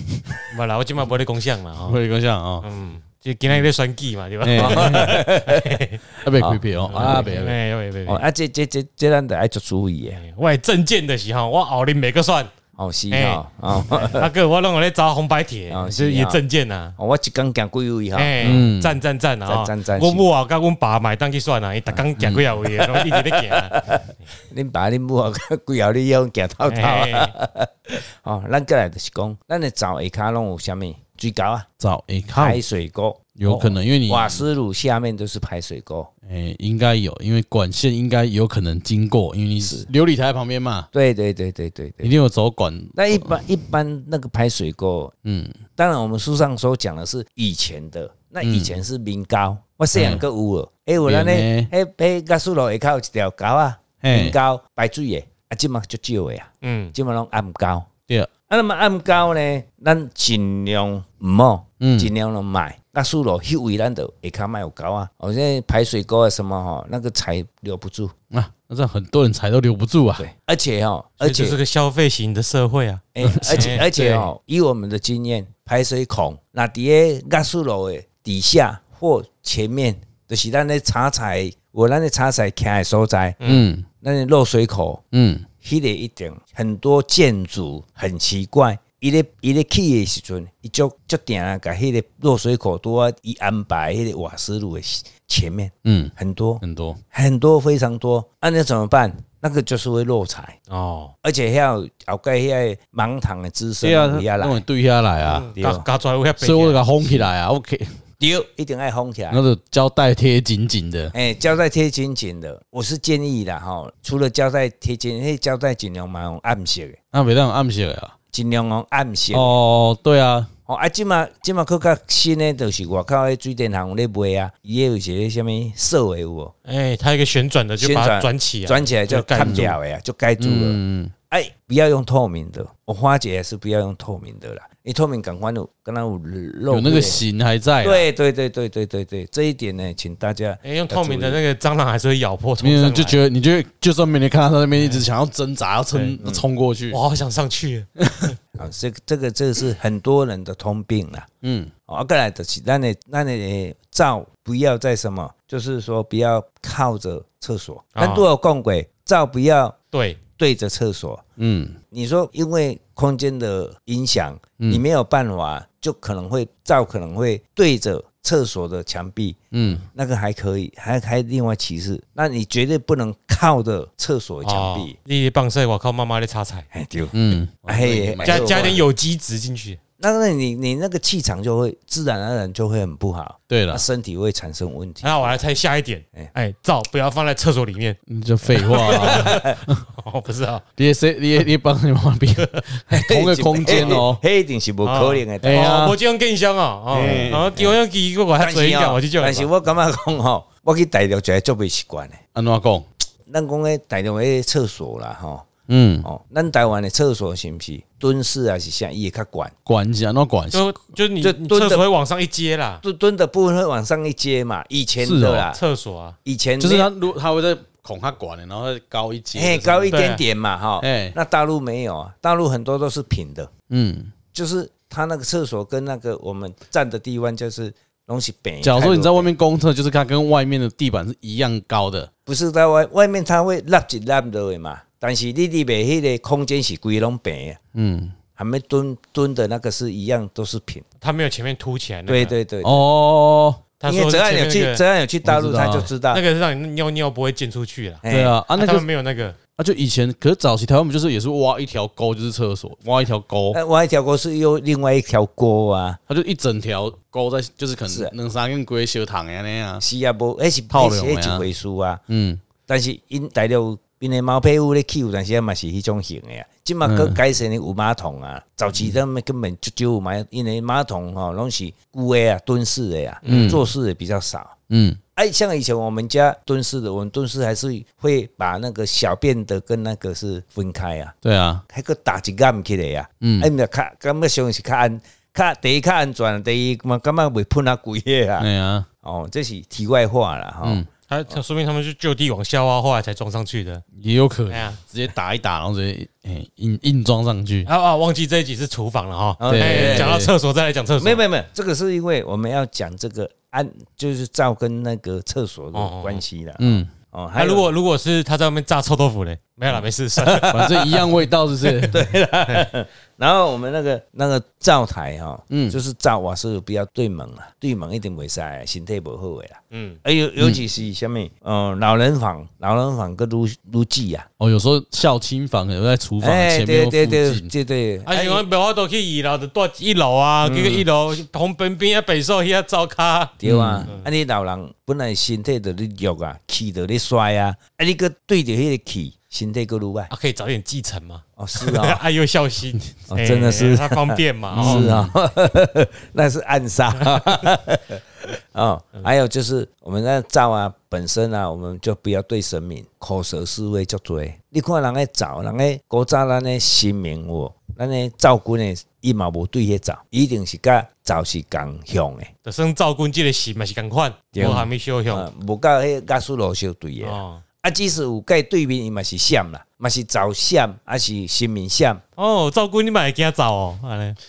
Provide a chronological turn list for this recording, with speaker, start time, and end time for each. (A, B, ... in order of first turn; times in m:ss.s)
0:00.5-0:02.0 A
0:01.9-0:02.7 B
0:02.6-0:06.0 A
0:04.4-0:05.2 B
0:04.6-0:05.8 C
0:06.2-0:07.6 B
0:06.3-0:07.3 C
0:06.9-0:08.2 A
0:08.1-0:10.2 C
0:10.1-0:12.5 A
0:12.8-0:14.3 C
0:13.1-0:17.0 A
0:15.7-0:16.4 C
0:17.0-0:18.7 C
0:18.1-0:23.9 A
0:18.4-0:19.0 B
0:19.5-0:20.2 C
0:22.6-0:31.7 C
0:26.7-0:27.3 A
0:31.8-0:32.6 B
0:32.3-0:33.2 C
0:33.4-0:34.4 B
0:33.5-0:33.8 A
0:34.1-0:36.1 C
0:36.3-0:40.9 B
0:39.6-0:39.9 C
0:40.9-0:42.1 C
0:42.0-0:43.4 B
0:43.0-0:45.1 C
0:45.2-0:45.6 B
0:45.8-0:57.9 C
0:48.4-0:48.8 B
0:50.0-0:50.2 B
0:51.0-0:51.7 B
0:54.0-0:54.4 B
0:56.6-0:57.0 A
0:58.5-1:08.1 C
1:01.8-1:02.1 B
1:08.3-1:10.3 B
1:10.2-1:11.6 C
1:11.2-1:14.3 A
1:13.2-1:23.4 C
1:13.2-1:13.8 B
1:23.4-1:23.7 A
1:23.4-1:23.9 B
1:24.0-1:25.0 C
1:25.1-1:25.5 B
1:25.6-1:36.6 C
1:35.8-1:37.0 B
1:37.1-1:40.6 C
1:40.7-1:41.1 A
1:41.2-1:44.6 C
1:43.8-1:45.5 B
1:45.3-1:46.8 A
1:45.6-1:45.8 C
1:46.4-1:48.0 B
1:48.2-1:49.4 C
1:49.3-1:51.1 B
1:51.1-1:57.0 C
1:57.1-1:58.1 B
1:58.3-1:59.6 C
1:59.3-2:00.5 B
2:00.7-2:06.5 C
2:06.6-2:09.7 A
2:07.8-2:10.8 C
2:09.4-2:09.7 B
2:10.4-2:11.1 B
2:11.3-2:17.2 C
2:16.7-2:18.1 B
2:17.8-2:21.4 C
2:20.6-2:23.2 A
2:22.6-2:27.0 B
2:25.9-2:26.2 A
2:26.2-2:26.5 C
2:26.9-2:27.9 A
2:28.0-2:28.4 B
2:28.5-2:31.3 C
2:31.4-2:31.7 B
2:31.9-2:39.8 C
2:38.0-2:38.3 A
2:39.9-2:40.2 A
2:40.3-2:41.2 C
2:41.4-2:41.8 B
2:41.9-2:55.0 C
2:49.5-2:49.8 B
2:54.4-2:56.7 A
2:56.7-2:58.8 C
2:57.1-2:58.8 B
2:58.2-2:59.8 A
3:00.0-3:05.4 C
3:03.5-3:03.8 B
3:05.0-3:08.0 A
3:08.1-3:09.8 B
3:08.6-3:10.6 A
3:08.7-3:09.6 C
3:10.8-3:14.2 B
3:12.9-3:15.7 C
3:13.7-3:14.0 A
3:14.8-3:19.5 A
3:15.4-3:16.0 B
3:16.9-3:17.5 B
3:16.9-3:17.8 C
3:18.4-3:22.2 C
3:22.3-3:22.8 B
3:23.3-3:25.5 C
3:25.7-3:26.1 B
3:26.0-3:29.5 C
3:29.7-3:30.8 B
3:30.5-3:32.8 A
3:31.2-3:31.8 C
3:32.8-3:35.6 C
3:35.0-3:35.5 B
3:35.5-3:36.2 A
3:36.2-3:36.9 C
3:36.6-3:40.0 B
3:39.3-3:43.5 C
3:39.9-3:40.2 A
3:40.8-3:41.2 B
3:43.7-3:44.1 B
3:44.3-3:49.3 C
3:48.6-3:52.1 B
3:52.3-3:57.6 C
3:57.8-3:58.2 B
3:58.4-4:00.8 C
4:01.0-4:02.4 A
4:02.1-4:02.9 C
4:02.6-4:03.6 B
4:03.8-4:04.8 A
4:03.9-4:06.2 C
4:05.2-4:05.9 B
4:06.1-4:09.4 A
4:08.0-4:08.4 C
4:08.1-4:08.9 B
4:09.6-4:13.6 B
4:13.5-4:16.0 C
4:16.1-4:19.8 B
4:17.9-4:18.1 C
4:19.8-4:22.0 C
4:20.7-4:21.5 B
4:22.1-4:22.4 B
4:22.7-4:34.6 C
4:26.8-4:27.2 B
4:33.2-4:33.6 A
4:33.3-4:33.6 B
4:34.7-4:35.0 B
4:35.2-4:41.2 C
4:41.2-4:41.6 B
4:41.7-4:48.5 C
4:43.2-4:43.5 B
4:48.4-4:48.9 B
4:49.0-4:51.3 C
4:51.1-4:53.8 A
4:54.0-4:57.7 B
4:54.5-4:54.8 A
4:57.7-5:01.2 A
4:59.4-5:00.2 C
4:59.5-5:00.3 B
5:01.0-5:07.7 C
5:05.7-5:06.2 A
5:06.6-5:06.9 B
5:07.4-5:10.5 A
5:10.2-5:11.1 C
5:10.5-5:12.1 B
5:11.6-5:24.3 C
5:15.5-5:15.8 B
5:19.7-5:20.0 A
5:24.4-5:27.5 B
5:26.2-5:28.4 C
5:28.1-5:33.4 A
5:30.4-5:30.9 C
5:33.4-5:40.1 C
5:33.4-5:33.9 B
5:40.1-5:44.9 A
5:41.4-5:42.0 C
5:43.1-6:02.3 C
5:44.5-5:45.1 B
5:47.0-5:47.4 A
6:02.4-6:05.3 A
6:04.3-6:12.0 C
6:07.0-6:07.4 A
6:12.2-6:14.2 A